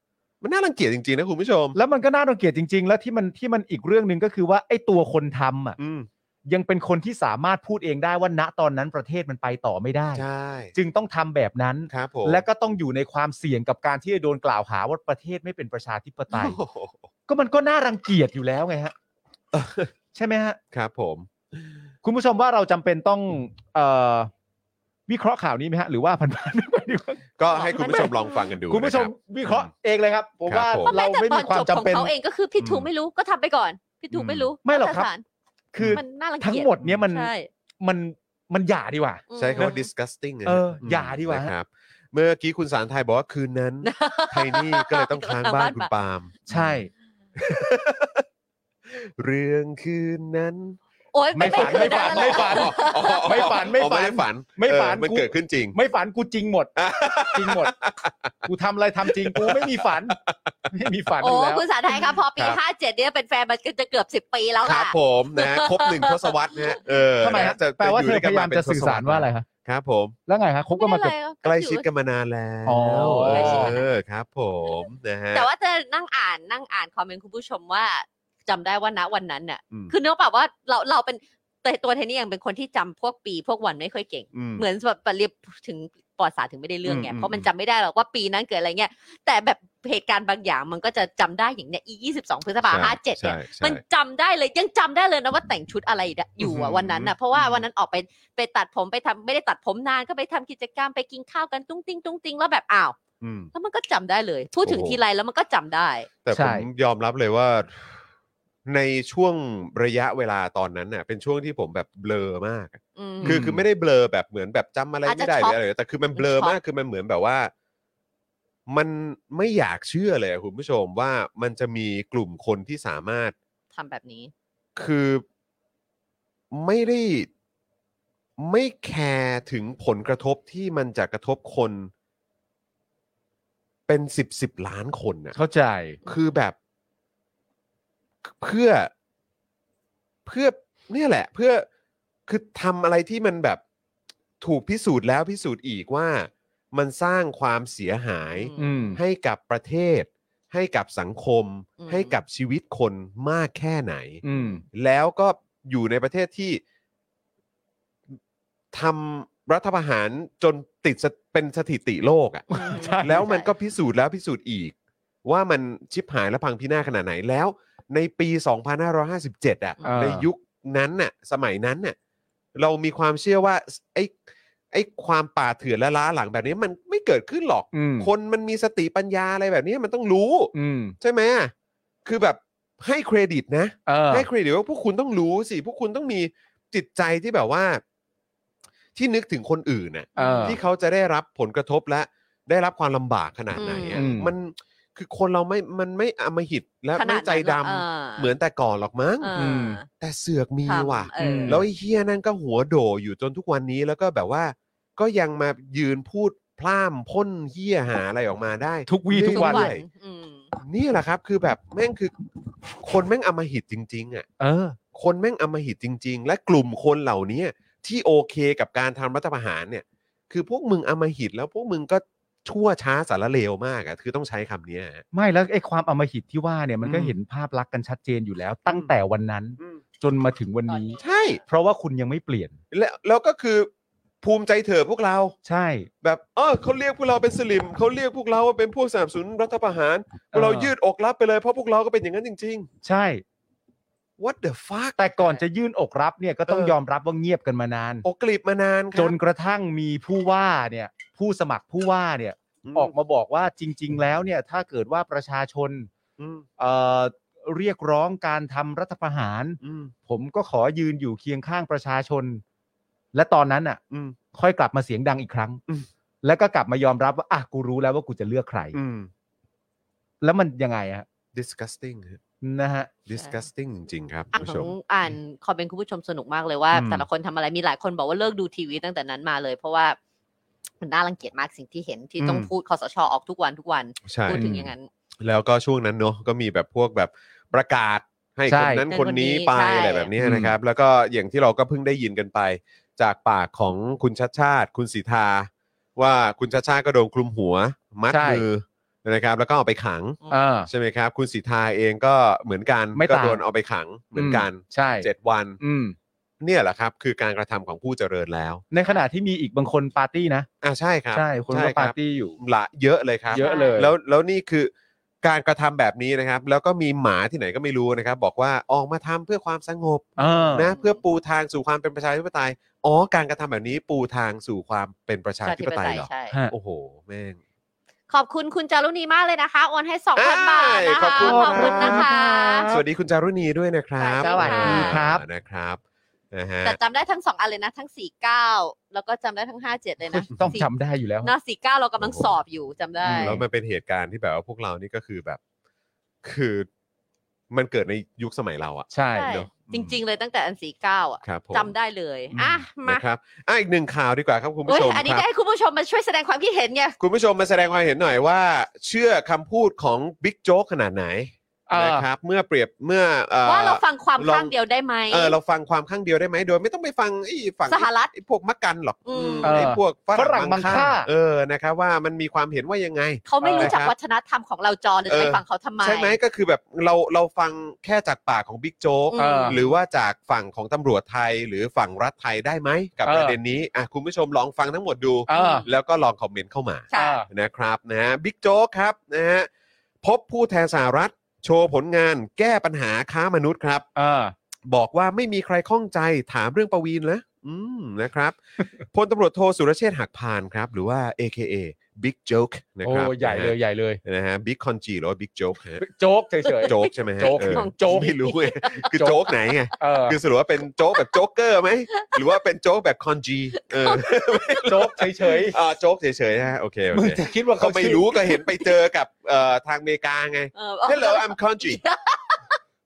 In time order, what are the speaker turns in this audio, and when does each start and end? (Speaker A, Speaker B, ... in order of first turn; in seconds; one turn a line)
Speaker A: 0.4-1.8
Speaker B: 1.7-5.8
Speaker A: 5.8-6.1
Speaker B: 6.5-10.2
Speaker A: 10.2-10.7
Speaker B: 10.7-16.6
Speaker A: 11.9-12.4
Speaker A: 16.3-17.1
Speaker B: 17.3-18.9
Speaker A: 19.5-19.9
Speaker B: 20.1-20.6
Speaker A: 20.7-21.7
Speaker B: 22.0-24.3
Speaker B: 25.1-27.2
Speaker A: 27.4-29.7
Speaker C: 27.5-28.4
Speaker B: 27.7-28.1
Speaker B: 28.7-32.1
Speaker A: 30.5-30.9
Speaker C: 30.8-35.2
Speaker A: 32.6-32.9
Speaker A: 34.1-34.5
Speaker B: 34.6-35.1
Speaker B: 35.7-39.8
Speaker C: 35.9-37.5
Speaker C: 39.3-39.9
Speaker A: 39.4-46.8
Speaker B: 40.5-41.5
Speaker C: 43.8-45.9
Speaker B: 46.5-46.9
Speaker A: 47.4-48.2
Speaker A: 48.9-50.8
Speaker C: 51.1-53.6
Speaker B: 51.3-57.7
Speaker A: 51.4-55.8
Speaker A: 56.8-58.5
Speaker B: 58.4-60.2
Speaker A: 59.0-60.5
Speaker B: 60.7-61.6
Speaker C: 61.2-67.5
Speaker A: 61.9-62.6
Speaker A: 64.6-70.1
Speaker B: 67.2-69.5
Speaker B: 70.3-71.1
Speaker C: 70.7-71.8
Speaker A: 71.4-75.5
Speaker B: 72.7-73.8
Speaker C: 72.9-73.9
Speaker C: 74.7-103.0
Speaker A: 84.3-84.7
Speaker A: 86.8-87.5
Speaker A: 92.6-93.8
Speaker A: 96.4-97.6
Speaker A: 103.2-103.5
Speaker C: 103.5-106.1
Speaker A: 104.6-105.0
Speaker A: 106.2-108.0
Speaker B: 106.3-106.7
Speaker A: 108.7-117.5
Speaker C: 113.0-113.5
Speaker B: 113.2-113.6
Speaker C: 115.0-115.6
Speaker C: 116.1-116.5
Speaker A: 118.7-123.3
Speaker C: 123.7-124.3
Speaker A: 124.8-125.2
Speaker A: 126.5-127.3
Speaker A: 128.4-131.9
Speaker A: 133.9-135.3
Speaker B: 135.3-136.0
Speaker A: 136.1-136.5
Speaker A: 138.2-138.9
Speaker A: 140.2-141.7
Speaker A: 142.3-143.6
Speaker A: 144.4-156.6
Speaker C: 148.3-148.9
Speaker B: 148.6-149.0
Speaker C: 151.8-152.2
Speaker B: 154.2-154.6
Speaker C: 154.3-154.6
Speaker A: 158.7-162.5
Speaker C: 162.5-163.5
Speaker B: 162.5-163.3
Speaker A: 163.0-171.9
Speaker B: 169.8-170.3
Speaker A: 172.6-174.2
Speaker A: 174.7-181.5
Speaker B: 177.7-178.1
Speaker B: 180.5-180.9
Speaker A: 182.0-187.8
Speaker B: 183.9-184.3
Speaker A: 188.9-199.3
Speaker C: 190.2-190.6
Speaker B: 190.2-190.6
Speaker C: 193.5-194.1
Speaker B: 193.9-194.3
Speaker C: 196.9-198.3
Speaker C: 199.2-199.9
Speaker B: 199.4-199.8
Speaker A: 199.9-209.8
Speaker C: 200.7-201.6
Speaker B: 201.2-201.6
Speaker B: 208.9-209.7
Speaker C: 209.2-210.5
Speaker A: 210.6-212.1
Speaker A: 212.8-214.2
Speaker B: 214.4-214.8
Speaker A: 214.9-225.0
Speaker B: 225.1-232.6
Speaker A: 226.8-227.1
Speaker A: 228.7-228.9
Speaker A: 231.0-231.4
Speaker A: 232.7-233.7
Speaker A: 234.2-235.3
Speaker B: 235.4-235.9
Speaker A: 236.0-242.7
Speaker B: 240.3-240.7
Speaker B: 242.8-243.2
Speaker A: 244.2-245.4
Speaker B: 245.0-248.1
Speaker A: 246.5-246.8
Speaker A: 248.0-249.2
Speaker B: 248.9-255.9
Speaker A: 252.6-252.9
Speaker A: 256.2-256.4
Speaker B: 256.6-262.4
Speaker A: 259.6-259.9
Speaker B: 263.1-263.8
Speaker A: 263.9-264.1
Speaker B: 264.3-265.6
Speaker B: 266.2-268.8
Speaker A: 268.7-269.1
Speaker B: 270.2-271.0
Speaker A: 271.3-272.2
Speaker B: 272.4-272.9
Speaker A: 273.1-274.7
Speaker C: 274.3-280.0
Speaker A: 276.7-277.1
Speaker C: 280.8-284.9
Speaker A: 282.2-282.5
Speaker A: 284.0-284.7
Speaker A: 285.2-305.6
Speaker B: 288.5-288.8
Speaker C: 288.9-290.1
Speaker B: 290.2-290.5
Speaker B: 298.1-298.4
Speaker B: 300.3-300.7
Speaker B: 302.9-303.4
Speaker B: 304.1-305.1
Speaker B: 305.6-305.9
Speaker A: 306.4-308.6
Speaker B: 308.7-310.5
Speaker A: 310.6-314.7
Speaker B: 311.1-312.4
Speaker B: 313.3-313.9
Speaker C: 313.4-313.9
Speaker A: 315.2-327.4
Speaker B: 320.2-320.7
Speaker C: 320.7-321.0
Speaker C: 325.4-326.3
Speaker C: 328.1-332.7
Speaker A: 330.1-332.1
Speaker B: 331.2-332.8
Speaker A: 332.7-335.8
Speaker C: 334.0-335.0
Speaker B: 334.2-335.2
Speaker A: 336.3-336.8
Speaker C: 336.6-340.7
Speaker B: 340.1-341.3
Speaker C: 341.2-343.4
Speaker A: 342.0-342.3
Speaker B: 343.0-343.4
Speaker A: 343.1-345.4
Speaker A: 346.2-346.7
Speaker A: 347.5-349.9
Speaker B: 348.9-349.5
Speaker C: 349.1-353.0
Speaker A: 351.2-351.7
Speaker A: 352.3-355.2
Speaker C: 354.7-356.9
Speaker A: 357.0-364.5
Speaker B: 361.7-362.1
Speaker C: 363.4-365.4
Speaker A: 365.1-373.9
Speaker C: 367.7-368.1
Speaker C: 369.1-369.6
Speaker B: 369.4-371.1
Speaker C: 373.2-376.2
Speaker B: 373.4-373.7
Speaker A: 375.1-389.5
Speaker C: 379.1-379.8
Speaker B: 379.2-379.6
Speaker B: 383.0-383.4
Speaker B: 385.3-385.6
Speaker C: 385.3-385.7
Speaker C: 386.9-387.2
Speaker B: 386.9-387.3
Speaker A: 390.0-393.9
Speaker B: 393.9-394.3
Speaker A: 394.7-398.4
Speaker A: 398.9-405.8
Speaker B: 402.8-404.0
Speaker B: 405.8-408.1
Speaker C: 406.5-408.9
Speaker A: 406.6-421.8
Speaker B: 408.9-409.2
Speaker B: 409.8-410.2
Speaker C: 413.6-414.2
Speaker B: 414.6-415.6
Speaker B: 416.9-418.1
Speaker C: 420.5-422.4